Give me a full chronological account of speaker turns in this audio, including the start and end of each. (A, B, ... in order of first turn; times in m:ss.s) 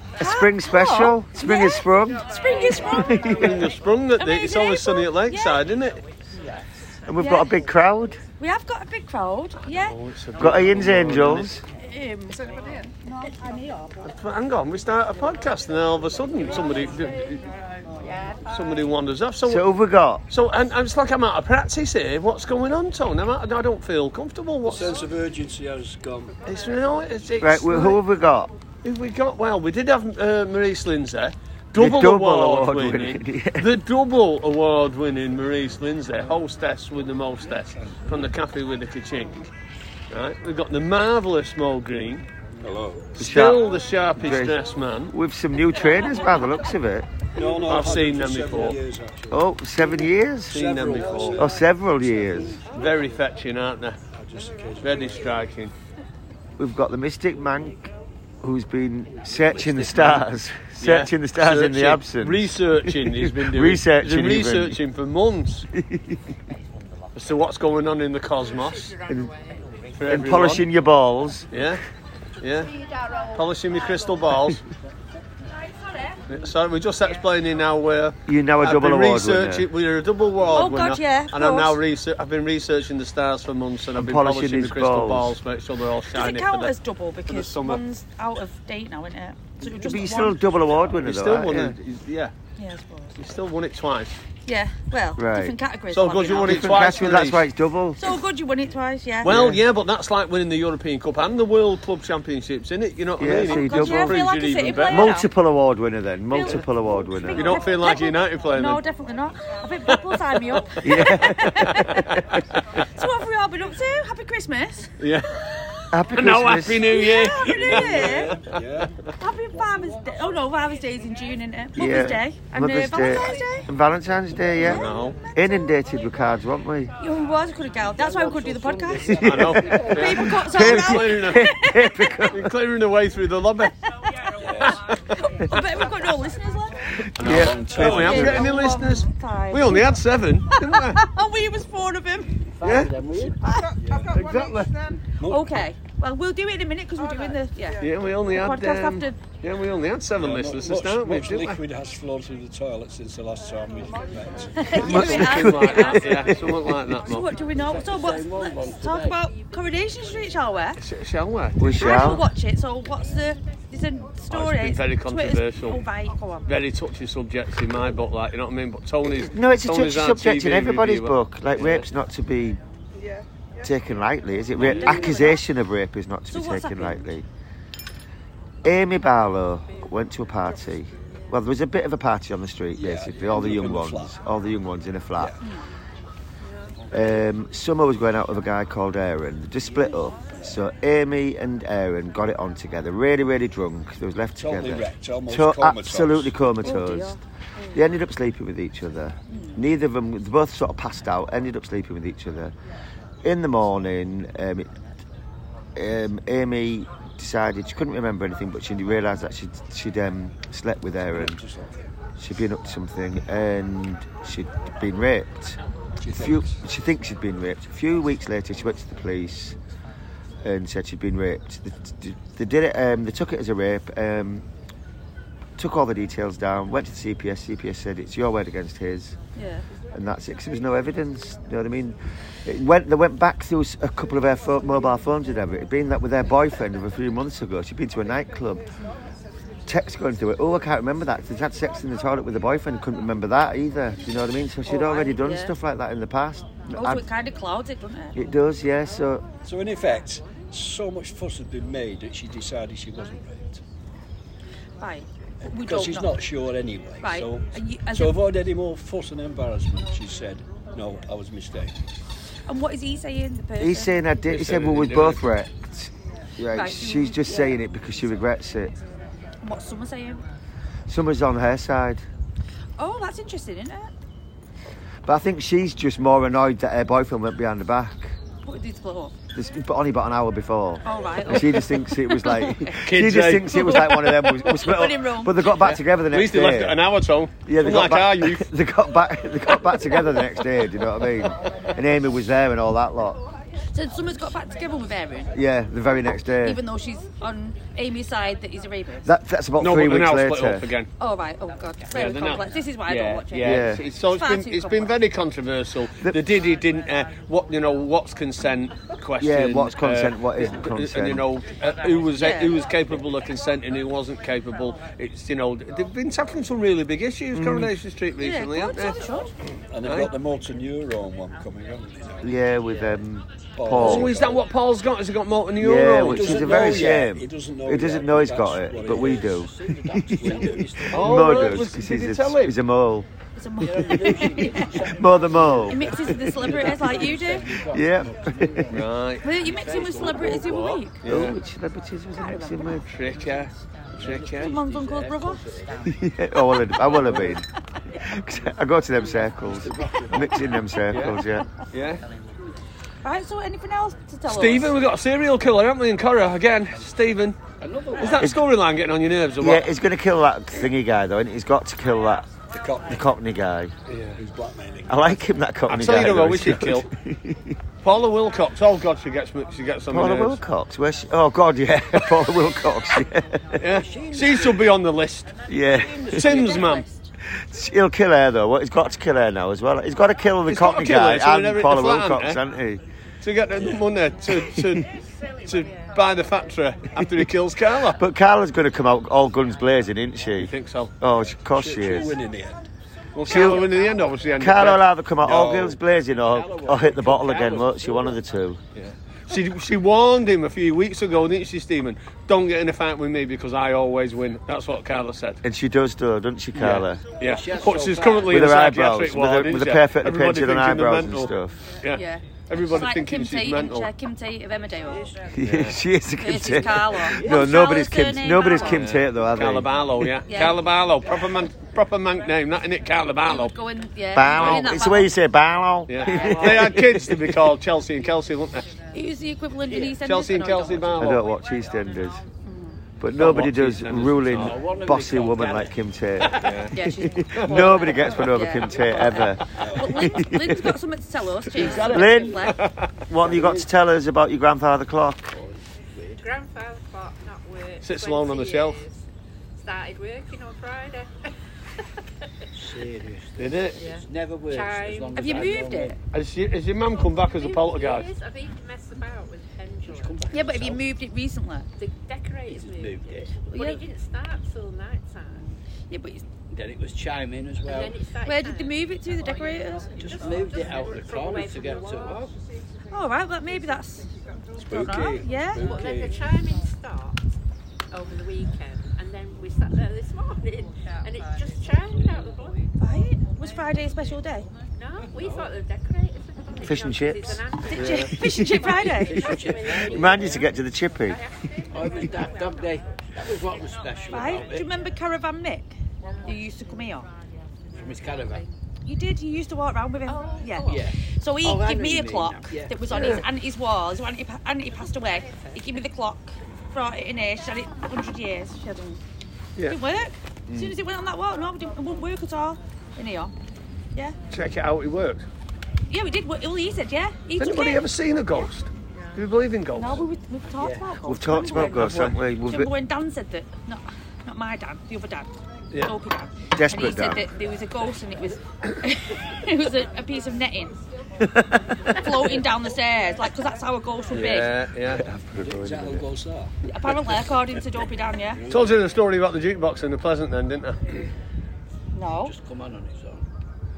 0:00.2-0:03.4 A
0:00.2-0:03.7 B
0:03.2-0:06.0 C
0:04.2-0:05.6 A
0:07.1-0:08.2 B
0:07.2-0:07.6 A
0:08.4-0:10.0 A
0:09.6-0:11.6 C
0:10.4-0:11.6 B
0:11.8-0:14.0 A
0:14.0-0:17.5 C
0:18.5-0:19.7 C
0:19.4-0:20.2 B
0:20.3-0:25.0 C
0:24.6-0:26.4 D
0:26.5-0:28.0 C
0:27.4-0:28.5 B
0:28.8-0:39.5 C
0:31.8-0:33.7 B
0:40.1-0:42.3 C
0:42.6-0:43.2 D
0:43.2-0:47.1 B
0:43.2-0:45.1 C
0:47.4-0:49.8 D
0:47.6-0:48.8 C
0:49.3-0:50.6 B
0:50.5-0:53.2 D
0:50.5-0:51.5 C
0:51.4-0:52.6 B
0:52.7-0:54.0 C
0:54.1-0:55.4 D
0:54.8-0:55.7 C
0:56.6-0:57.9 B
0:58.4-1:04.8 B
0:59.6-1:00.2 C
1:00.8-1:05.7 C
1:05.7-1:06.2 B
1:07.2-1:09.0 C
1:09.1-1:09.3 B
1:10.0-1:10.7 C
1:10.1-1:11.5 B
1:11.5-1:11.8 C
1:12.4-1:12.8 C
1:13.3-1:14.6 C
1:15.6-1:16.2 A
1:16.3-1:26.7 C
1:18.3-1:19.7 B
1:20.5-1:21.8 A
1:24.0-1:25.4 B
1:26.1-1:30.5 A
1:27.3-1:27.8 C
1:29.6-1:31.8 B
1:31.0-1:32.3 C
1:32.6-1:33.2 A
1:33.2-1:34.2 C
1:34.4-1:37.0 A
1:35.2-1:35.6 B
1:35.9-1:37.5 C
1:36.3-1:38.1 B
1:38.0-1:39.4 A
1:39.2-1:39.6 B
1:39.2-1:45.1 C
1:43.2-1:44.2 B
1:43.4-1:45.3 A
1:44.8-1:47.6 B
1:46.3-1:52.1 A
1:47.3-1:48.8 C
1:49.9-1:50.6 C
1:50.8-1:52.2 B
1:52.1-1:52.6 C
1:52.8-1:54.9 A
1:55.0-1:55.4 C
1:55.9-1:56.9 B
1:56.1-1:58.6 C
1:56.8-1:58.3 A
1:57.7-1:58.9 D
1:59.2-2:03.7 A
2:01.8-2:06.9 B
2:04.6-2:05.2 C
2:07.0-2:12.2 A
2:07.8-2:10.0 E
2:09.1-2:12.5 B
2:09.2-2:11.5 C
2:12.3-2:13.7 C
2:14.4-2:14.8 D
2:15.2-2:16.8 A
2:17.0-2:18.4 B
2:17.2-2:21.0 C
2:17.2-2:18.4 D
2:17.7-2:22.4 A
2:22.6-2:23.4 E
2:22.6-2:22.9 C
2:23.4-2:23.7 A
2:23.8-2:24.1 D
2:24.1-2:24.9 C
2:25.2-2:25.6 D
2:25.3-2:29.2 A
2:27.8-2:31.6 C
2:30.2-2:34.9 D
2:34.6-2:36.2 A
2:34.7-2:37.3 C
2:35.1-2:36.9 B
2:37.0-2:40.8 A
2:37.6-2:39.2 E
2:40.8-2:41.7 C
2:41.6-2:42.3 B
2:41.7-2:46.5 A
2:44.3-2:45.8 C
2:46.5-2:51.9 C
2:49.1-2:52.6 B
2:53.6-2:57.3 B
2:54.6-2:55.3 D
2:54.8-2:55.4 A
2:56.3-2:57.0 A
2:58.6-3:05.4 B
3:02.8-3:04.1 D
3:06.9-3:17.2 B
3:14.4-3:16.3 D
3:16.6-3:17.8 A
3:17.7-3:22.5 B
3:19.3-3:19.6 A
3:23.2-3:24.7 B
3:25.8-3:31.4 B
3:31.1-3:31.8 D
3:32.2-3:35.6 B
3:36.0-3:36.6 D
3:36.2-3:39.6 B
3:40.4-3:44.4 B
3:45.6-3:49.2 B
3:49.4-3:49.6 A
3:49.9-3:58.6 B
3:59.7-4:07.1 B
4:04.7-4:05.5 A
4:06.8-4:08.2 A
4:08.2-4:09.2 B
4:09.4-4:13.6 D
4:14.8-4:16.1 A
4:15.4-4:21.8 D
4:17.0-4:18.2 A
4:22.5-4:24.0 A
4:23.6-4:28.8 B
4:24.3-4:25.2 C
4:26.5-4:27.5 A
4:29.4-4:30.2 A
4:30.9-4:32.0 B
4:32.8-4:33.9 A
4:35.0-4:38.2 B
4:38.4-4:39.1 A
4:39.3-4:46.8 B
4:40.8-4:42.8 A
4:41.3-4:41.7 C
4:42.7-4:43.8 C
4:43.5-4:45.5 A
4:45.5-4:48.5 C
4:47.5-4:53.2 B
4:53.7-4:55.3 A
4:55.3-4:56.6 B
4:56.4-4:59.1 A
4:59.0-5:00.7 B
4:59.6-5:00.9 C
5:01.0-5:04.9 A
5:01.9-5:19.0 C
5:03.4-5:03.8 B
5:09.2-5:11.3 B
5:12.2-5:12.6 A
5:17.3-5:17.7 B
5:18.2-5:19.3 A
5:19.7-5:22.4 D
5:19.8-5:20.1 C
5:22.2-5:24.2 B
5:23.6-5:24.4 D
5:23.7-5:27.0 C
5:25.6-5:33.1 B
5:26.0-5:29.4 D
5:28.9-5:31.5 E
5:30.1-5:30.8 D
5:30.9-5:32.6 C
5:33.4-5:34.9 A
5:33.6-5:36.6 B
5:33.6-5:40.4 E
5:35.6-5:37.6 A
5:37.7-5:38.9 B
5:38.7-5:41.4 C
5:39.2-5:41.0 A
5:41.0-5:42.9 B
5:42.2-5:42.8 A
5:42.8-5:44.6 C
5:44.0-5:45.9 E
5:44.4-5:45.4 A
5:45.8-5:51.5 B
5:46.9-5:47.3 C
5:49.5-5:50.1 D
5:49.6-5:50.5 E
5:50.9-5:52.0 C
5:53.0-5:54.7 A
5:54.3-5:57.4 C
5:57.6-5:58.3 D
5:58.0-5:59.7 C
5:59.4-6:02.3 B
6:02.5-6:03.0 D
6:02.9-6:03.7 B
6:03.9-6:04.2 C
6:04.2-6:05.2 D
6:04.9-6:07.6 B
6:05.7-6:06.9 C
6:07.8-6:10.4 C
6:09.9-6:13.6 B
6:13.6-6:15.4 C
6:13.7-6:14.7 E
6:15.5-6:16.5 B
6:15.8-6:16.7 E
6:16.0-6:17.0 A
6:16.1-6:16.8 C
6:17.3-6:22.8 B
6:20.5-6:22.4 C
6:23.2-6:24.9 C
6:24.3-6:24.8 B
6:25.4-6:28.0 C
6:28.0-6:32.2 B
6:30.4-6:30.9 C
6:31.5-6:32.6 D
6:33.2-6:34.9 C
6:33.2-6:33.7 B
6:34.4-6:38.6 B
6:35.2-6:35.8 D
6:36.3-6:38.2 E
6:38.8-6:45.4 C
6:45.4-6:47.0 B
6:46.5-6:53.9 C
6:47.2-6:48.5 E
6:48.3-6:51.6 B
6:51.9-6:55.1 A
6:55.3-7:00.1 B
6:55.4-6:55.8 C
6:56.2-6:58.8 A
6:57.0-6:57.3 E
6:58.5-7:03.6 C
7:00.3-7:00.6 A
7:03.3-7:05.1 A
7:04.1-7:07.4 B
7:04.3-7:04.7 C
7:05.9-7:08.7 C
7:08.9-7:11.1 A
7:09.7-7:11.3 C
7:11.0-7:12.2 B
7:12.5-7:12.8 A
7:13.0-7:20.7 B
7:13.1-7:14.6 C
7:14.4-7:15.7 E
7:16.2-7:16.8 C
7:16.7-7:22.6 A
7:17.4-7:17.8 C
7:19.6-7:19.9 D
7:21.6-7:22.2 E
7:21.6-7:22.6 B
7:22.4-7:22.9 C
7:23.1-7:25.3 B
7:23.2-7:23.7 E
7:25.3-7:26.2 E
7:26.4-7:27.4 F
7:27.8-7:28.8 C
7:29.7-7:31.1 F
7:32.6-7:36.0 E
7:33.4-7:33.8 C
7:34.5-7:35.5 F
7:35.1-7:36.0 A
7:36.1-7:38.1 C
7:38.1-7:40.1 F
7:39.9-7:40.8 E
7:40.3-7:41.7 A
7:41.8-7:43.0 F
7:42.5-7:43.4 E
7:43.5-7:43.8 A
7:43.8-7:45.5 F
7:45.9-7:46.2 A
7:46.5-7:48.0 E
7:48.2-7:50.3 A
7:50.0-7:52.3 E
7:50.1-7:52.0 F
7:52.9-7:54.1 A
7:54.6-7:55.6 A
7:54.6-7:56.3 D
7:56.1-7:56.8 F
7:58.1-8:02.6 F
8:02.8-8:04.5 A
8:05.1-8:08.1 F
8:05.1-8:05.5 E
8:06.6-8:11.2 B
8:07.7-8:09.3 A
8:07.8-8:08.1 C
8:08.9-8:10.4 E
8:11.7-8:14.7 E
8:14.1-8:15.7 A
8:16.2-8:17.1 A
8:17.8-8:18.5 E
8:18.8-8:29.0 A
8:20.7-8:22.7 E
8:22.9-8:23.3 C
8:29.7-8:33.3 A
8:30.5-8:30.8 B
8:34.3-8:35.3 C
8:35.9-8:37.8 A
8:37.4-8:40.1 C
8:39.7-8:50.8 A
8:40.6-8:40.9 E
8:41.1-8:42.7 B
8:41.5-8:42.2 C
8:46.6-8:47.3 B
8:51.9-8:54.5 A
8:54.1-8:55.0 C
8:54.9-8:56.1 B
8:55.4-8:56.5 D
8:56.7-8:58.4 A
8:58.4-8:58.8 D
8:58.5-9:01.0 C
9:01.9-9:02.4 A
9:02.2-9:03.2 E